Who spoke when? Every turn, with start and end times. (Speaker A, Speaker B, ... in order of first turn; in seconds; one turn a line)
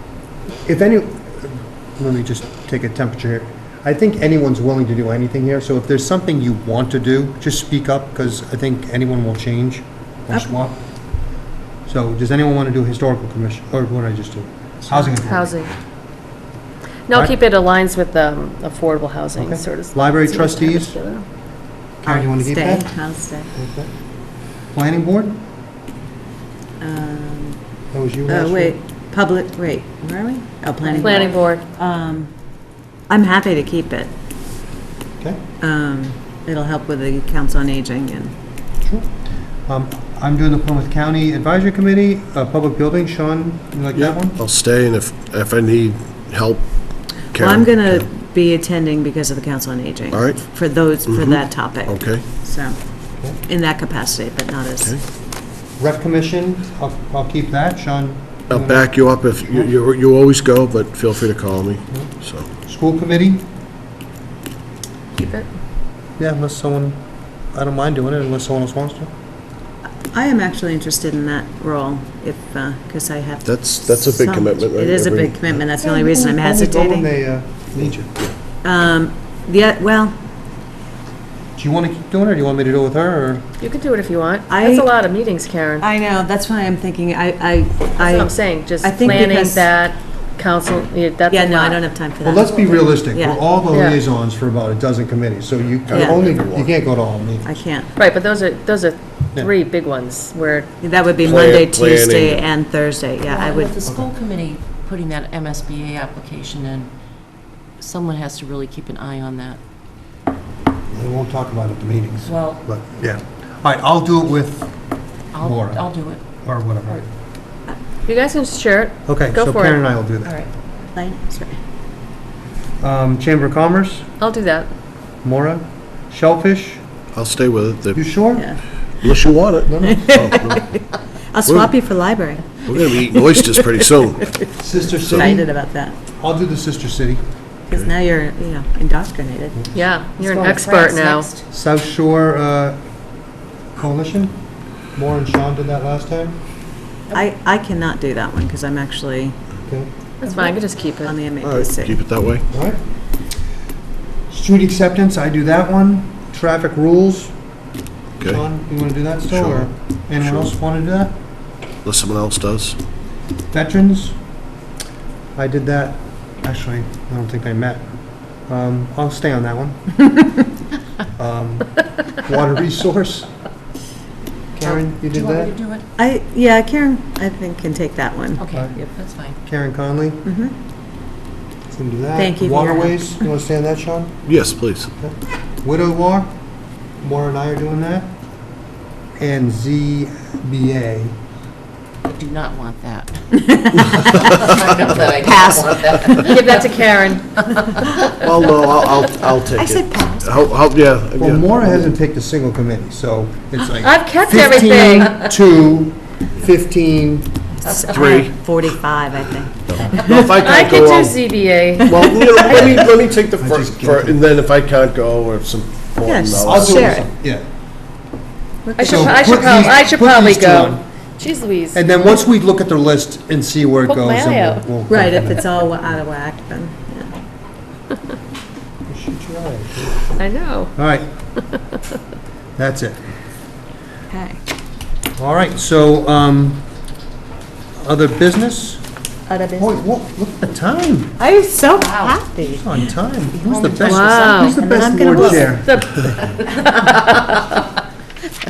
Speaker A: 0.7-10.8
Speaker A: 11.9-15.6
Speaker B: 14.9-15.7
Speaker B: 17.1-21.3
Speaker A: 17.1-17.4
Speaker A: 19.4-21.0
Speaker A: 22.0-23.0
Speaker C: 22.1-23.5
Speaker A: 23.5-23.9
Speaker A: 24.7-25.4
Speaker C: 26.8-27.6
Speaker A: 27.9-28.8
Speaker C: 28.3-32.3
Speaker B: 30.9-31.6
Speaker C: 33.1-34.1
Speaker C: 35.6-38.3
Speaker A: 39.7-44.4
Speaker D: 43.9-48.1
Speaker C: 47.3-55.0
Speaker D: 50.1-52.3
Speaker A: 55.8-58.9
Speaker D: 58.5-62.5
Speaker A: 62.6-63.5
Speaker B: 65.2-65.5
Speaker A: 66.2-67.0
Speaker A: 67.5-69.1
Speaker C: 70.0-77.1
Speaker D: 73.5-75.6
Speaker A: 75.8-78.2
Speaker C: 78.6-80.2
Speaker A: 81.6-83.5
Speaker B: 83.6-85.9
Speaker C: 84.5-84.9
Speaker C: 85.8-89.7
Speaker B: 88.0-91.8
Speaker C: 91.3-93.4
Speaker A: 92.2-97.5
Speaker B: 93.7-94.0
Speaker D: 95.9-96.8
Speaker C: 95.9-96.2
Speaker C: 97.4-97.9
Speaker B: 98.0-100.7
Speaker C: 100.8-103.7
Speaker D: 101.2-102.5
Speaker E: 103.3-106.9
Speaker E: 107.8-109.6
Speaker A: 110.9-114.7
Speaker E: 112.2-112.6
Speaker E: 115.3-116.2
Speaker A: 115.4-117.1
Speaker B: 118.1-119.8
Speaker A: 119.1-120.4
Speaker E: 120.2-120.5
Speaker C: 120.9-121.6
Speaker A: 122.8-124.1
Speaker B: 124.2-124.7
Speaker A: 125.2-126.8
Speaker D: 127.1-128.2
Speaker A: 128.0-128.5
Speaker C: 128.3-128.6
Speaker D: 129.0-130.7
Speaker A: 129.7-130.2
Speaker C: 129.8-133.6
Speaker D: 131.5-131.7
Speaker D: 132.6-134.4
Speaker A: 134.6-135.5
Speaker D: 134.9-135.4
Speaker C: 135.1-136.0
Speaker A: 136.2-137.2
Speaker C: 137.7-139.6
Speaker B: 139.7-141.3
Speaker A: 140.2-140.6
Speaker E: 140.3-141.5
Speaker A: 141.5-142.8
Speaker A: 143.8-144.4
Speaker A: 144.9-146.4
Speaker C: 147.1-149.4
Speaker B: 150.2-151.2
Speaker E: 150.3-150.6
Speaker C: 151.0-152.0
Speaker D: 151.4-152.4
Speaker A: 152.5-152.8
Speaker A: 154.3-157.3
Speaker A: 158.2-161.2
Speaker D: 159.3-160.5
Speaker D: 161.8-162.8
Speaker A: 163.5-164.2
Speaker A: 165.4-170.0
Speaker A: 171.2-173.3
Speaker A: 174.6-175.6
Speaker E: 174.6-175.8
Speaker C: 176.0-178.4
Speaker E: 178.4-179.4
Speaker A: 179.4-180.3
Speaker C: 180.2-180.5
Speaker A: 181.7-184.4
Speaker C: 182.2-183.0
Speaker D: 184.3-184.9
Speaker A: 185.0-186.3
Speaker A: 187.0-188.1
Speaker A: 189.2-191.1
Speaker E: 192.1-196.7
Speaker C: 193.4-194.0
Speaker C: 195.2-196.2
Speaker B: 196.2-197.4
Speaker E: 197.6-197.9
Speaker D: 198.1-201.6
Speaker C: 199.5-200.4
Speaker A: 201.2-207.3
Speaker B: 203.8-205.3
Speaker C: 207.6-210.3
Speaker D: 207.8-208.5
Speaker D: 209.7-211.3
Speaker B: 210.3-212.8
Speaker D: 211.9-217.0
Speaker C: 211.9-212.8
Speaker A: 213.4-214.2
Speaker C: 216.0-217.1
Speaker A: 216.4-217.4
Speaker C: 218.7-219.5
Speaker B: 218.8-221.8
Speaker A: 218.8-220.8
Speaker A: 221.7-225.7
Speaker B: 223.9-224.7
Speaker C: 224.9-227.1
Speaker A: 228.9-230.1
Speaker B: 230.2-230.7
Speaker A: 230.8-231.1
Speaker B: 231.4-231.6
Speaker A: 232.6-233.0
Speaker C: 234.1-234.4
Speaker A: 235.2-236.7
Speaker A: 237.8-238.8
Speaker C: 239.3-239.8
Speaker A: 239.6-241.2
Speaker C: 241.2-242.8
Speaker E: 241.7-244.6
Speaker A: 242.4-246.4
Speaker B: 243.8-244.6
Speaker C: 244.4-245.5
Speaker B: 245.1-247.6